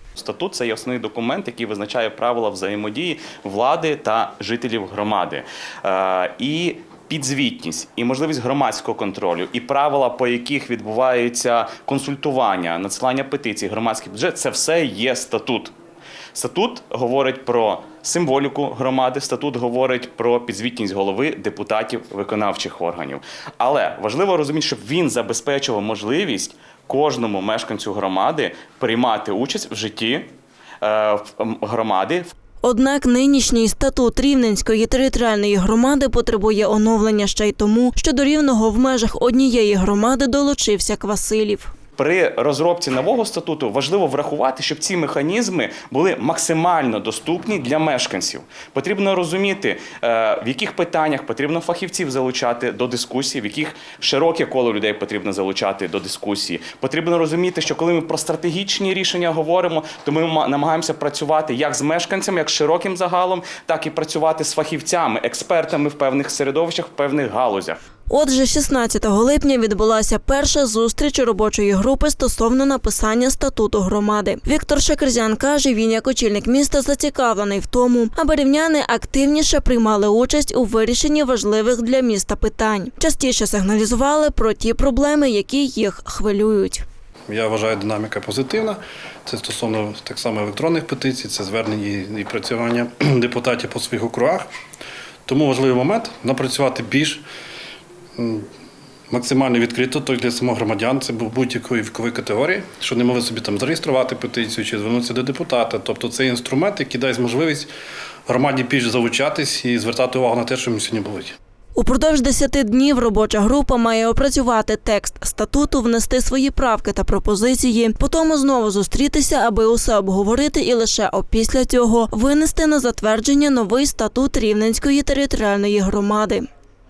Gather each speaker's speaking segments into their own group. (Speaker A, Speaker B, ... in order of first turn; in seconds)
Speaker A: 0.1-15.7, 16.3-30.3, 30.8-32.3, 42.0-67.8
Speaker B: 32.6-41.7, 68.1-86.8, 111.7-126.5
Speaker C: 87.3-94.5, 95.2-97.2, 98.2-98.5, 99.1-107.7, 108.3-111.3